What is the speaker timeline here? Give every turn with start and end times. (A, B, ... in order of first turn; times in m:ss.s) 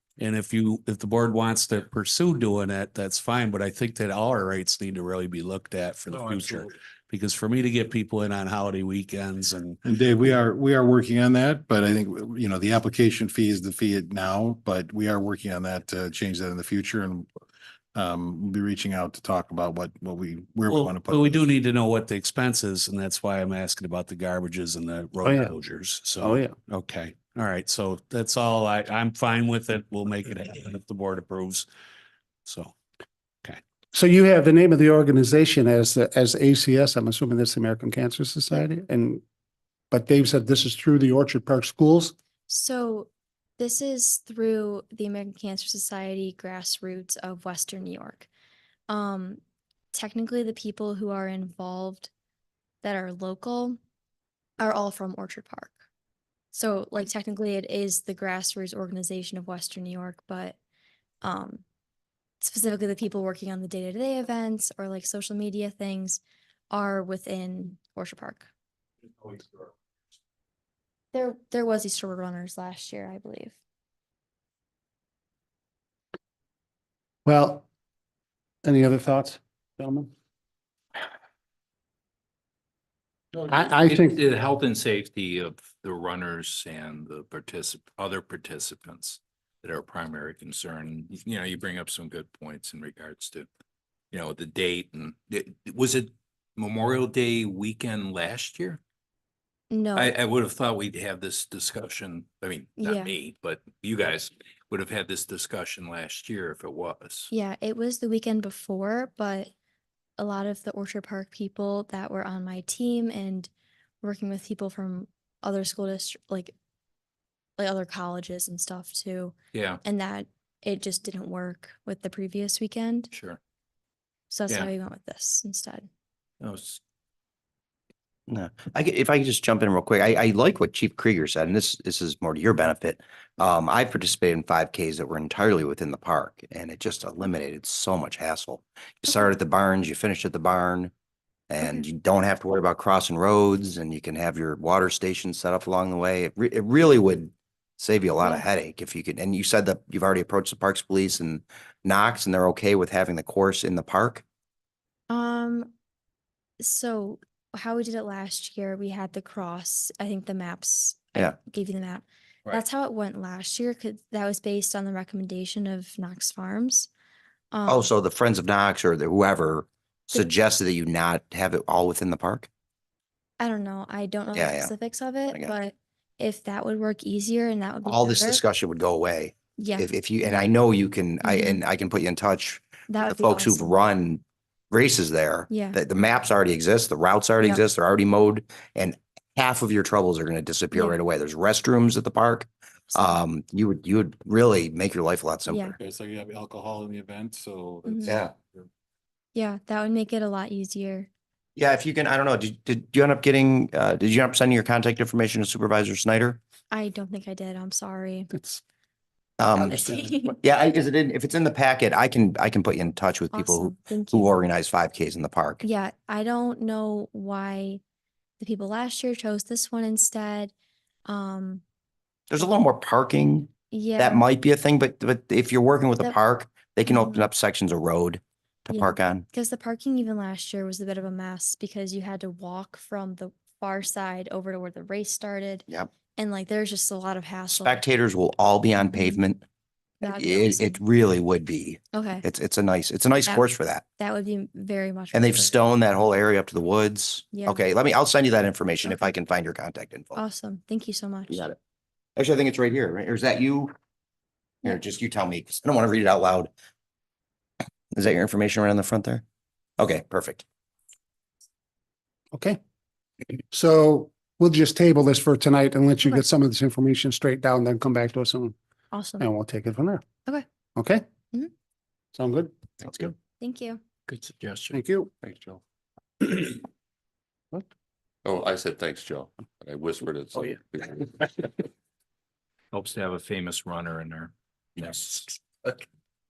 0:00.2-0:09.8 A
0:06.1-0:06.7 B
0:09.8-0:17.3 C
0:17.9-0:21.5 C
0:20.7-0:31.7 A
0:25.2-0:25.5 D
0:26.2-0:26.5 D
0:32.4-0:32.7 A
0:33.9-0:39.2 D
0:39.9-0:42.1 D
0:42.5-0:48.3 E
0:48.9-0:49.4 E
0:49.9-0:52.1 E
0:52.8-0:53.8 E
0:54.6-0:55.8 E
0:56.5-1:00.6 E
1:01.2-1:01.6 E
1:02.4-1:08.5 E
1:11.1-1:13.6 E
1:17.3-1:17.6 D
1:18.6-1:20.1 D
1:23.4-1:33.5 B
1:23.5-1:24.2 D
1:34.1-1:38.8 B
1:39.7-1:40.2 E
1:39.9-1:47.3 B
1:42.8-1:43.1 E
1:47.3-1:49.5 E
1:50.2-1:53.5 E
1:54.0-1:56.5 E
1:57.6-2:03.1 E
1:59.5-1:59.8 B
2:03.1-2:03.4 B
2:04.3-2:05.9 E
2:06.4-2:06.8 B
2:08.3-2:20.9 F
2:21.5-2:34.2 F
2:35.1-2:35.7 E
2:36.6-2:46.9 E
2:47.5-2:47.9 E
2:47.7-2:52.5 F
2:53.4-2:58.4 E
2:54.3-2:54.7 F
2:57.8-3:15.7 F
2:59.6-2:59.9 E
3:01.2-3:01.6 E
3:02.9-3:03.8 E
3:05.5-3:05.8 E
3:10.7-3:11.0 E
3:12.9-3:13.2 E
3:15.5-3:15.8 E
3:15.8-3:18.6 C
3:17.8-3:18.2 E
3:18.0-3:18.3 F
3:19.3-3:21.1 E
3:21.6-3:26.4 F
3:26.7-3:28.3 E
3:29.4-3:35.6 F
3:29.8-3:30.4 E
3:33.3-3:34.4 E
3:35.6-3:37.8 E
3:38.4-3:40.5 E
3:41.0-3:41.6 E
3:42.3-3:49.3 F
3:43.7-3:44.2 E
3:46.9-3:47.3 E
3:48.7-3:57.8 E
3:57.5-3:59.4 F
3:58.8-3:59.2 E
4:00.0-4:00.8 E
4:00.1-4:03.8 F
4:01.9-4:02.2 E
4:04.0-4:05.5 E
4:05.1-4:10.2 F
4:07.3-4:07.6 E
4:08.8-4:09.1 E
4:10.2-4:11.5 E
4:11.3-4:11.6 F
4:12.2-4:13.8 F
4:14.6-4:16.5 F
4:17.9-4:19.2 F
4:19.8-4:20.4 F
4:22.3-4:22.6 D
4:23.5-4:28.6 D
4:28.9-4:29.3 E
4:29.2-4:30.0 D
4:30.8-4:31.0 D
4:32.2-4:32.5 D
4:33.4-4:33.8 E
4:34.1-4:34.8 B
4:34.7-4:35.1 D
4:35.2-4:35.6 G
4:36.2-4:36.6 G
4:38.2-4:41.6 G
4:42.7-4:45.4 B